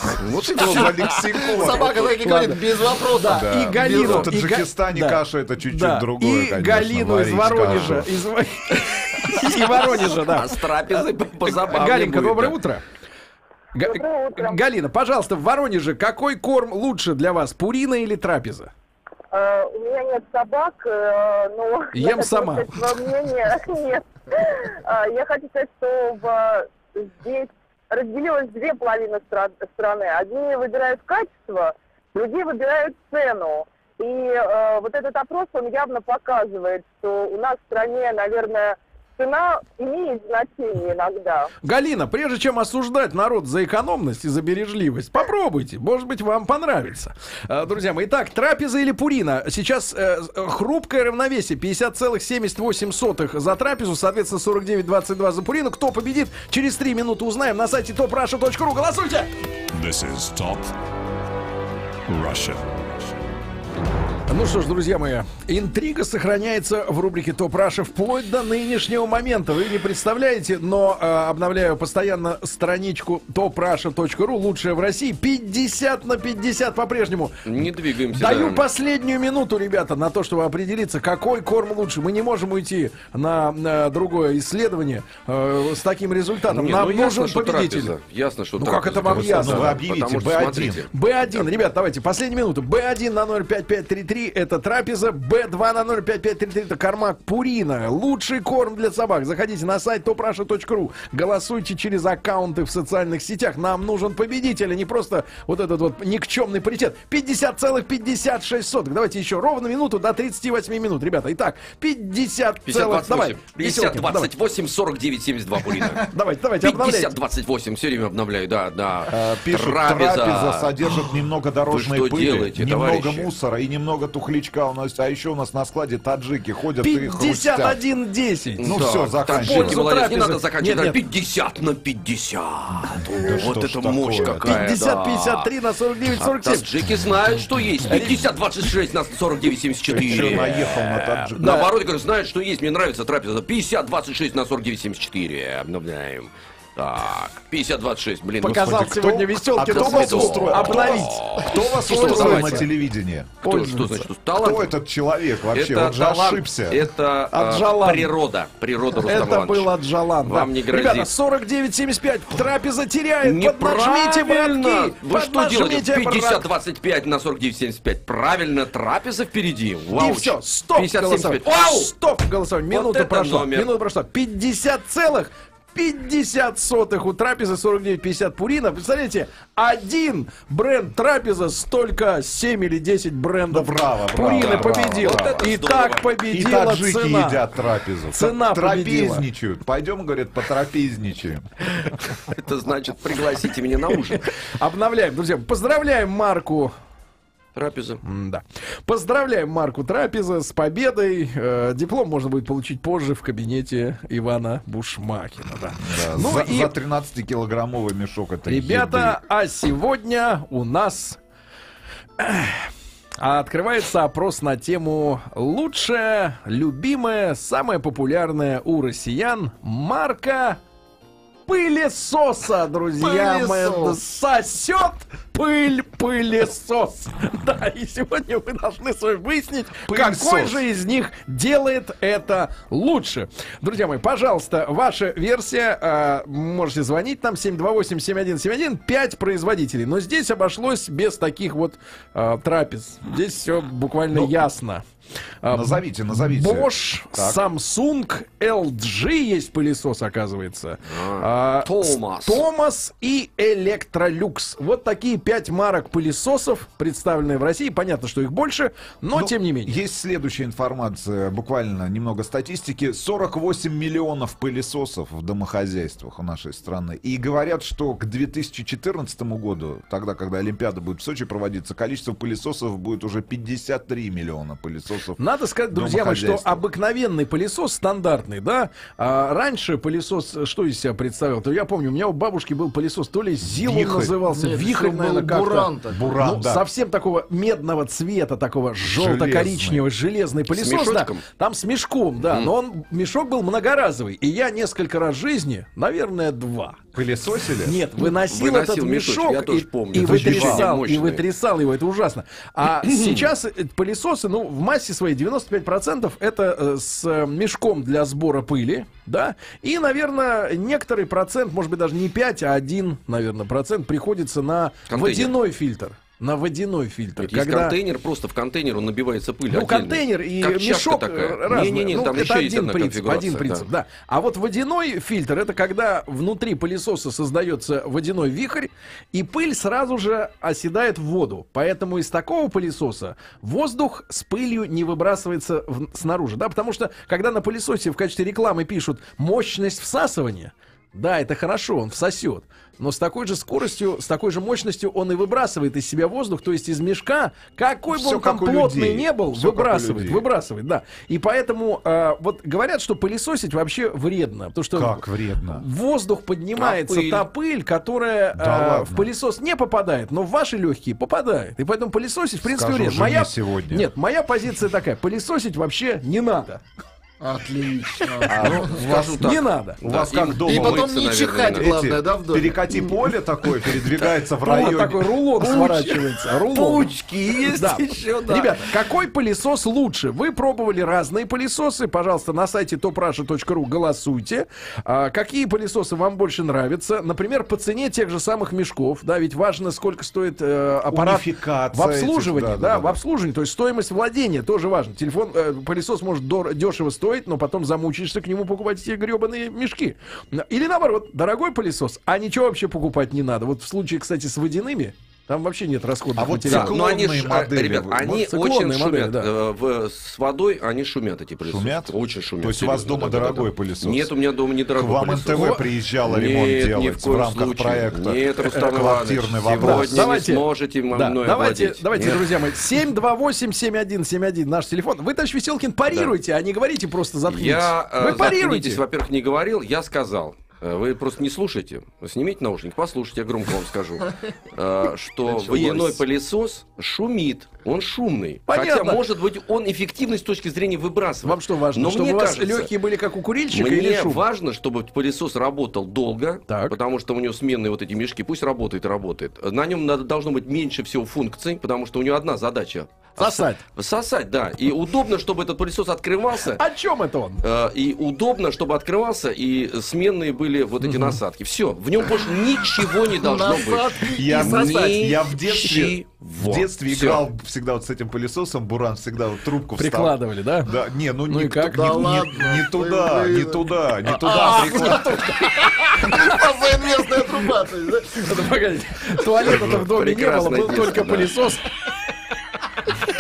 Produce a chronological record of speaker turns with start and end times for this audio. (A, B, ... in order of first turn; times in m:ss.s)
0:00.2-0:00.9 A
0:00.4-0:02.1 B
0:01.4-0:04.3 C
0:02.0-0:12.8 D
0:03.2-0:08.1 B
0:09.8-0:12.6 A
0:13.7-0:18.7 D
0:13.8-0:14.6 E
0:19.3-0:41.5 E
0:21.9-0:22.8 D
0:41.6-0:59.3 D
0:59.7-1:00.7 F
1:02.1-1:03.2 F
1:04.3-1:17.4 D
1:17.4-1:18.6 A
1:18.1-1:27.9 D
1:26.5-1:31.6 A
1:28.6-1:29.8 D
1:29.0-1:30.9 B
1:30.9-1:54.3 D
1:52.7-1:56.0 A
1:56.1-1:57.1 D
1:56.6-2:00.7 A
1:59.1-2:07.8 B
2:01.7-2:03.3 A
2:06.8-2:11.0 D
2:08.6-2:15.5 A
2:08.6-2:09.8 B
2:13.0-2:14.7 B
2:14.4-2:16.7 D
2:16.2-2:28.8 A
2:17.9-2:18.2 D
2:19.9-2:21.6 B
2:20.1-2:20.7 D
2:21.3-2:21.7 D
2:28.4-2:33.3 B
2:28.4-2:31.2 D
2:29.6-2:32.6 A
2:31.9-2:32.7 D
2:33.4-2:34.0 D
2:33.4-2:34.7 A
2:34.4-2:36.8 B
2:35.5-2:39.7 A
2:37.3-2:38.1 D
2:39.0-2:46.4 D
2:40.2-2:41.1 A
2:43.2-2:51.9 A
2:49.9-3:07.4 D
2:52.7-2:53.7 A
3:03.5-3:05.5 B
3:04.4-3:06.2 A
3:06.3-3:11.4 B
3:08.1-3:09.2 D
3:12.3-3:14.2 A
3:14.6-3:16.7 D
3:17.5-3:18.0 A
3:18.0-3:26.7 D
3:25.8-3:29.2 B
3:28.5-3:31.2 D
3:32.2-3:40.6 D
3:41.5-4:04.8 D
3:43.0-3:44.0 C
3:49.9-3:50.6 B
4:04.1-4:04.4 B
4:05.4-4:19.8 D
4:05.5-4:07.4 B
4:10.8-4:12.4 A
4:19.1-4:36.6 B
4:35.2-4:56.8 D
4:43.4-4:44.2 B
4:44.3-4:46.0 C
4:45.9-4:46.6 B
4:48.9-4:49.8 B
4:50.5-4:51.2 A
4:52.2-4:52.5 A
4:56.9-4:57.8 B
4:57.6-5:17.8 D
4:58.1-5:01.2 A
5:00.0-5:00.7 B
5:02.8-5:03.2 A
5:14.9-5:15.3 A
5:17.2-5:23.6 A
5:19.5-6:06.6 D
5:47.9-5:50.2 B
5:54.7-5:55.6 B
5:56.6-5:57.2 A
5:58.3-5:59.1 B
6:02.4-6:03.9 B
6:07.2-6:08.5 C
6:08.2-6:11.7 A
6:08.3-6:10.9 B
6:09.2-6:09.8 D
6:10.4-6:12.8 C
6:11.5-6:15.2 B
6:14.4-6:16.9 D
6:15.5-6:15.8 A
6:16.5-6:18.6 A
6:17.5-6:46.7 D
6:30.9-6:33.0 B
6:46.1-6:48.2 B
6:46.5-7:02.2 A
6:48.1-6:49.3 D
6:51.4-6:54.1 B
6:54.7-7:00.1 B
6:55.3-6:55.6 D
6:59.6-7:08.8 D
7:07.3-7:22.7 A
7:15.5-7:16.0 D
7:18.5-7:19.0 D
7:21.2-7:24.2 D
7:23.5-7:36.6 A
7:26.5-7:26.7 D
7:33.2-7:33.6 D
7:36.5-7:37.4 D
7:37.4-7:47.2 A
7:40.8-7:41.2 D
7:43.1-7:45.2 C
7:44.2-7:55.1 B
7:49.8-7:50.7 D
7:51.3-7:51.9 D
7:51.7-7:54.9 C
7:54.3-7:56.3 D
7:55.6-7:58.4 C
7:58.2-8:01.7 D
7:59.4-7:59.9 B
7:59.5-8:01.3 A